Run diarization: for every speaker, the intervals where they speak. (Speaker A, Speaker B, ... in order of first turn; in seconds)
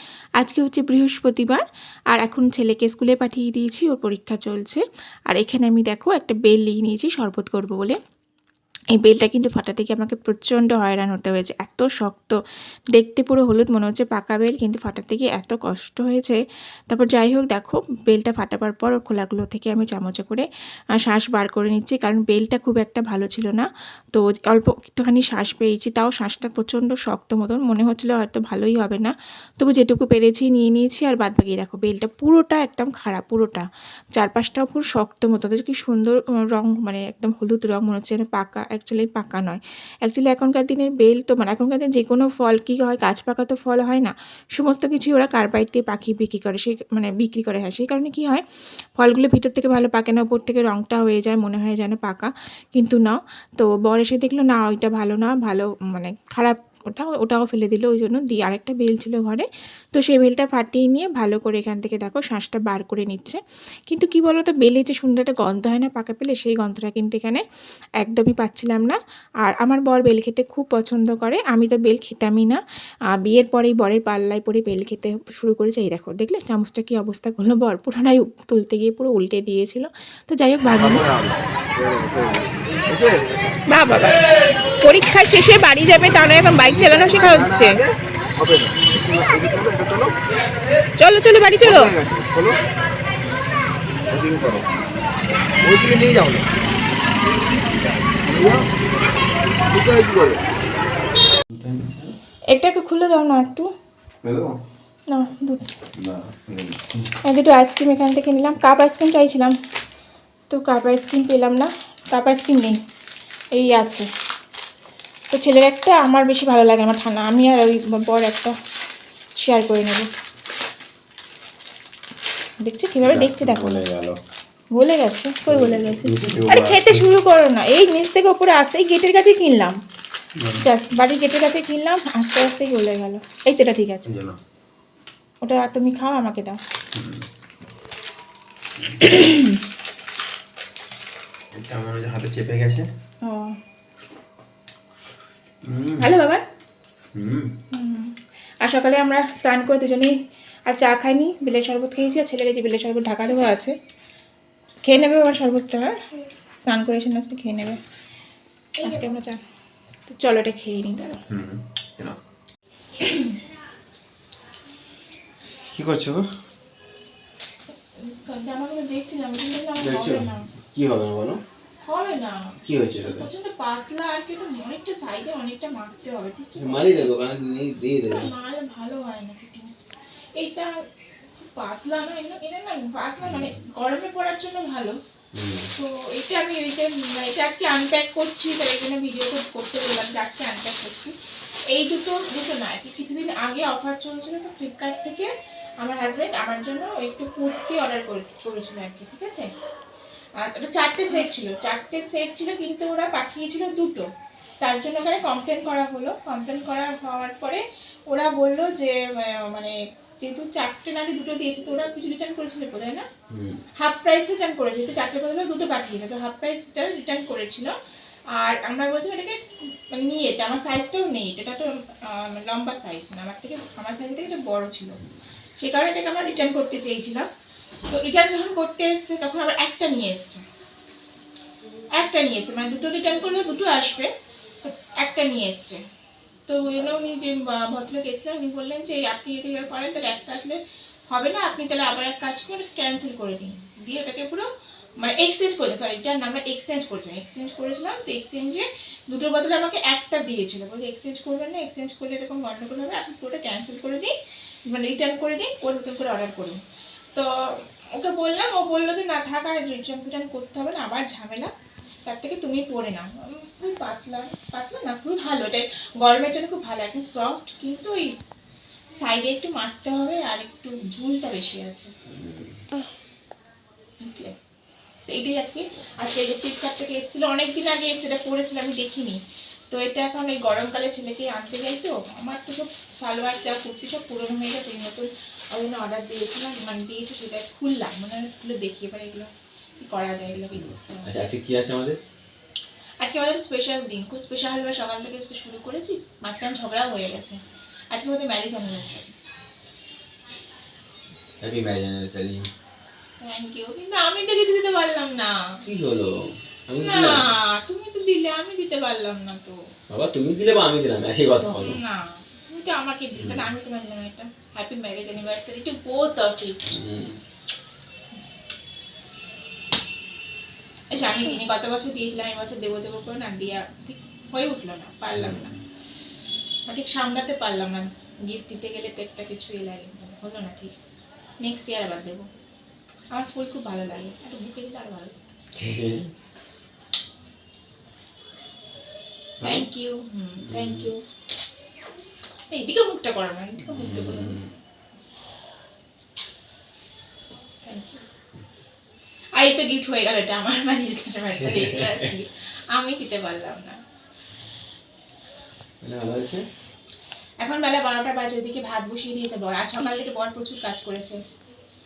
Speaker A: 0.4-8.0, 8.9-12.4, 12.9-16.4, 16.9-48.4, 49.0-67.4, 68.0-72.6, 73.1-81.1, 83.7-84.2, 84.8-87.8, 91.0-91.9, 102.5-103.7, 105.1-105.7, 107.2-109.5, 110.5-112.8, 113.5-114.1, 115.3-118.5, 119.4-120.1, 122.6-123.8, 124.8-129.8, 130.6-134.1, 135.4-136.6, 139.0-139.6, 143.2-143.6, 146.0-146.4, 147.7-150.1, 150.7-153.8, 154.8-156.0, 156.6-157.8, 158.8-159.4, 160.1-161.2, 163.0-163.4, 168.0-170.5, 171.8-177.1, 178.1-180.7, 181.5-185.0, 185.7-191.1, 191.7-195.3, 195.8-199.5, 200.4-204.1, 204.6-213.1, 213.8-217.7, 218.4-219.4, 219.9-225.0, 225.6-227.3, 227.9-230.4, 232.0-234.1, 234.6-235.8, 236.5-240.6, 241.1-244.5, 245.0-254.1, 254.7-256.6, 257.1-261.5, 262.1-268.1, 269.0-271.9, 274.0-274.4, 275.1-279.2, 279.7-289.3, 289.8-291.1, 293.0-297.4, 297.9-299.1, 303.2-305.4, 306.8-309.6, 311.4-316.6, 320.9-325.6, 326.7-330.8, 331.4-332.3, 333.1-335.3, 339.4-341.0, 342.5-344.4, 347.6-348.1, 349.4-353.8, 357.4-361.2
Speaker B: 81.0-81.3, 87.0-87.8, 89.1-89.7, 91.7-92.5, 98.3-98.6, 99.8-100.3, 101.5-102.2, 104.2-104.5, 106.0-107.1, 123.0-124.2, 125.5-127.1, 130.4-130.7, 134.1-134.4, 136.9-137.3, 138.8-139.1, 141.5-142.9, 145.7-146.2, 147.2-147.5, 161.3-162.2, 165.6-166.3, 169.8-171.4, 172.6-173.3, 176.6-178.3, 183.2-183.6, 185.3-185.7, 213.3-213.6, 272.1-272.6, 290.5-292.0, 301.4-302.4, 305.6-307.3, 309.9-311.8, 313.2-313.5, 316.7-317.2, 325.1-325.5, 335.6-336.1, 339.4-339.7, 340.4-340.9, 343.6-344.5, 351.4-352.1, 355.8-356.4
Speaker C: 81.8-83.2, 87.1-87.7, 88.4-90.1, 91.7-92.6, 94.1-94.6, 95.6-96.4, 98.2-98.6, 99.7-100.3